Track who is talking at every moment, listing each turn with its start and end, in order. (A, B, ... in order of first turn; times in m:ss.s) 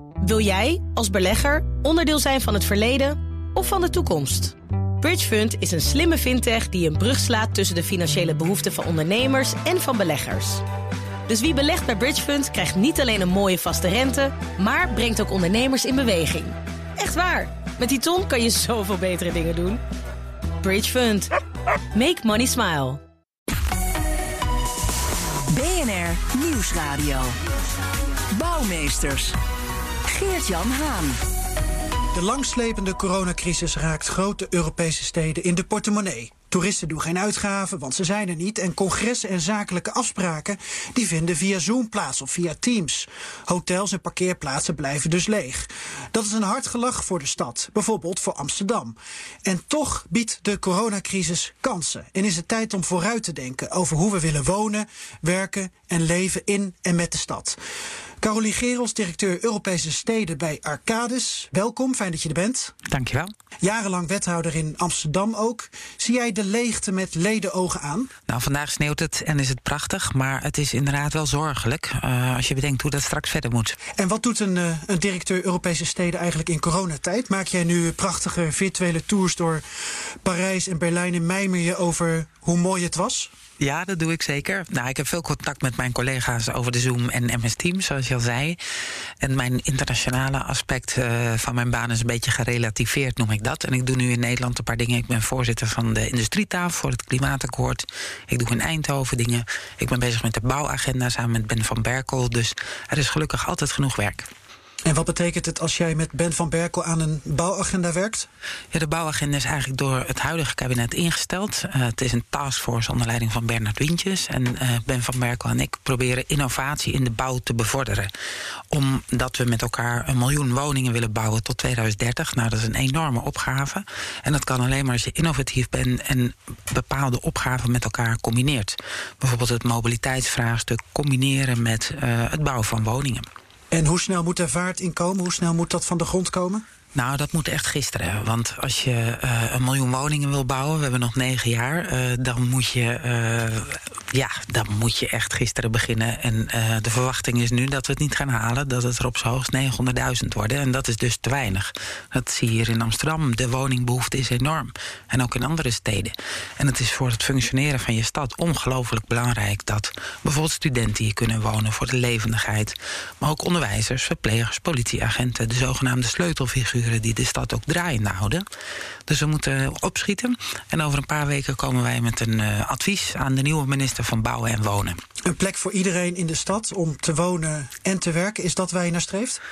0:00.2-0:10.6 A
0:11.3-0:19.8 A
0:20.6-0:21.3 A
0:21.9-0:23.0 A
0:25.5-0:27.3 B
0:28.3-0:29.4 B
0:30.0-0:31.2 B
0:32.1-0:57.6 C
0:58.2-1:02.7 C
1:02.9-1:03.3 D
1:03.6-1:08.1 C
1:08.3-1:13.8 D
1:14.0-1:19.6 C
1:20.2-1:23.3 C
1:23.6-1:28.6 D
1:29.2-1:44.3 D
1:44.8-1:48.3 C
1:48.7-1:58.1 D
1:58.7-2:13.3 D
2:13.7-2:16.6 C
2:16.9-2:48.4 D
2:49.1-2:55.0 D
2:55.2-2:59.4 C